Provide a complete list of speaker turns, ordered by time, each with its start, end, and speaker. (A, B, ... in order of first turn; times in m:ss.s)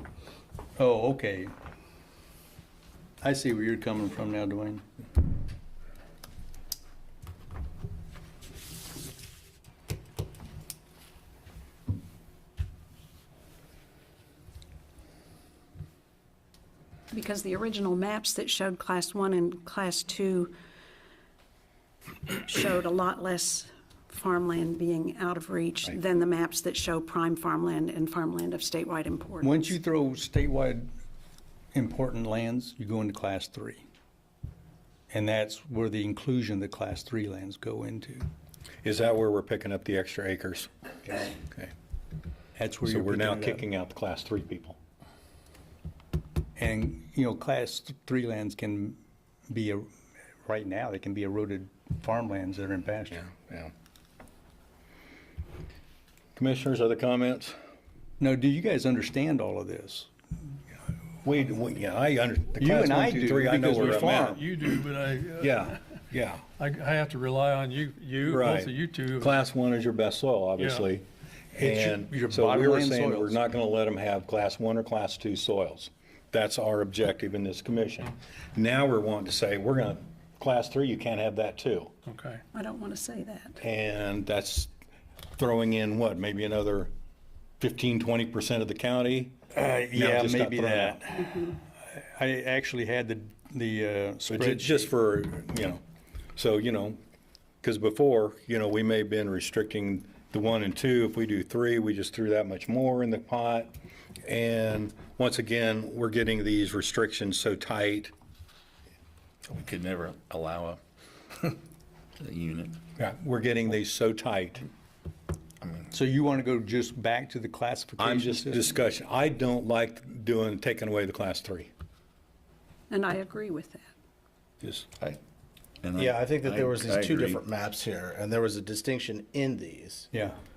0:00.8-0:01.5 A
0:03.2-0:04.8 A
0:17.1-0:20.5 B
0:22.3-0:29.7 B
0:29.4-0:30.9 A
0:31.7-0:33.8 A
0:35.1-0:38.3 A
0:38.8-0:41.7 C
0:42.6-0:43.6 A
0:42.8-0:44.8 C
0:46.6-0:49.9 A
0:50.4-0:53.2 A
0:53.2-0:53.7 C
0:56.4-0:57.6 C
0:58.2-1:00.1 A
1:01.2-1:04.6 C
1:02.6-1:04.4 A
1:04.4-1:05.6 D
1:05.4-1:06.4 C
1:06.6-1:09.3 D
1:08.3-1:21.9 C
1:10.6-1:10.8 D
1:11.6-1:13.4 A
1:22.1-1:22.4 D
1:22.5-1:23.6 B
1:23.6-1:24.7 C
1:25.3-1:26.9 C
1:27.6-1:29.3 C
1:29.5-1:34.9 A
1:29.9-1:31.0 C
1:34.3-1:35.8 C
1:36.4-1:37.0 C
1:37.6-1:43.7 C
1:44.2-1:48.1 C
1:49.5-1:50.8 E
1:52.2-1:52.8 E
1:53.0-1:54.7 C
1:55.9-1:58.7 A
1:58.0-2:01.7 C
2:02.9-2:03.9 B
2:04.6-2:04.9 C
2:05.8-2:07.4 E
2:06.0-2:10.1 F
2:10.1-2:10.4 A